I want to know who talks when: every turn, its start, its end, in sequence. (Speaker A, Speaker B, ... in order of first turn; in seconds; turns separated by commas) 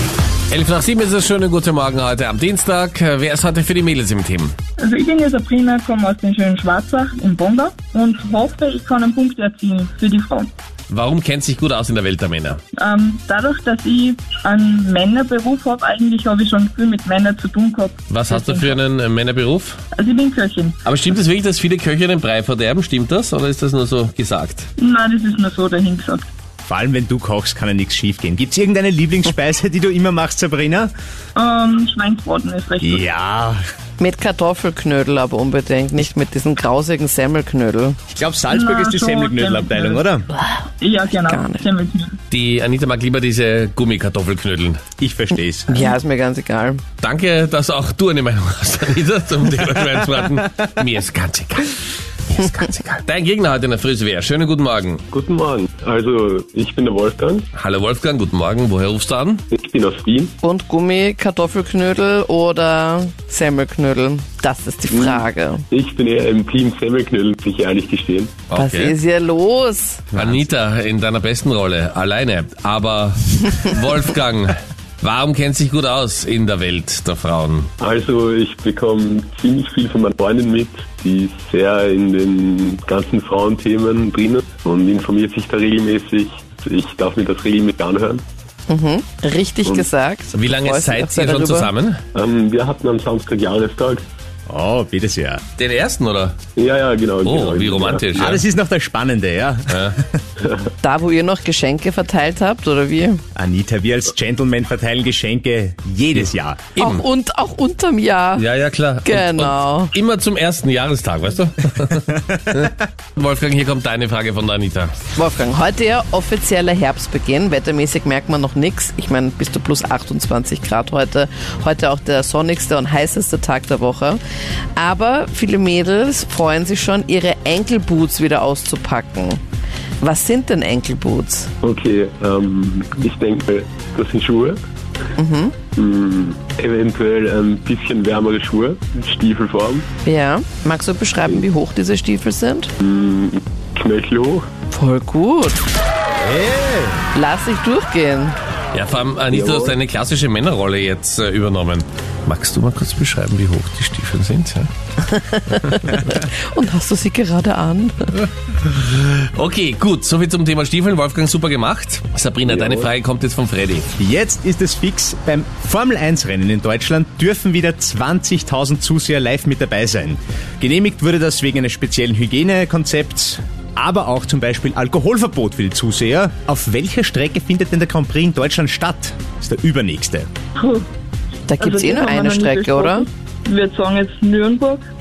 Speaker A: 0.5-4.5, Speaker B: 4.8-10.5, Speaker A: 10.9-12.6, Speaker B: 12.7-18.8, Speaker A: 18.1-19.8, Speaker B: 19.9-20.8, Speaker A: 20.8-24.6, Speaker B: 24.8-26.2, Speaker C: 26.6-30.9, Speaker B: 31.4-33.0, Speaker C: 32.8-33.6, Speaker D: 34.0-38.0, Speaker C: 38.1-40.3, Speaker B: 38.5-40.0, Speaker B: 40.8-42.2, Speaker D: 41.3-41.6, Speaker A: 42.3-44.8, Speaker C: 45.0-45.8, Speaker D: 45.7-46.8, Speaker A: 47.0-55.0, Speaker E: 55.1-57.5, Speaker A: 57.5-59.4, Speaker E: 59.5-60.3, Speaker D: 60.4-65.6, Speaker E: 64.9-68.4, Speaker A: 68.5-68.9, Speaker D: 68.5-70.1, Speaker C: 70.1-70.4, Speaker A: 70.1-77.7, Speaker E: 77.8-88.2, Speaker D: 88.7-91.7, Speaker A: 90.3-92.0, Speaker E: 92.1-94.0, Speaker C: 94.5-95.4, Speaker A: 95.6-96.4, Speaker E: 96.5-98.0, Speaker A: 97.2-98.4, Speaker C: 98.1-100.2, Speaker A: 99.7-100.0, Speaker D: 100.8-103.2, Speaker C: 103.3-106.7, Speaker A: 106.8-107.0, Speaker D: 106.8-108.4, Speaker A: 108.3-114.9, Speaker D: 109.0-109.9, Speaker D: 115.1-124.2, Speaker D: 124.8-129.4, Speaker D: 130.0-131.5, Speaker E: 131.6-134.6, Speaker D: 135.2-135.5, Speaker E: 135.8-139.9, Speaker D: 140.0-142.7, Speaker E: 142.8-144.5, Speaker D: 144.7-145.6, Speaker C: 146.2-147.0, Speaker D: 147.1-148.3, Speaker A: 148.7-154.7, Speaker E: 149.3-149.8, Speaker D: 155.0-158.2, Speaker A: 158.6-163.9, Speaker C: 164.0-180.3, Speaker B: 180.6-180.9, Speaker D: 181.5-183.1, Speaker B: 181.6-184.8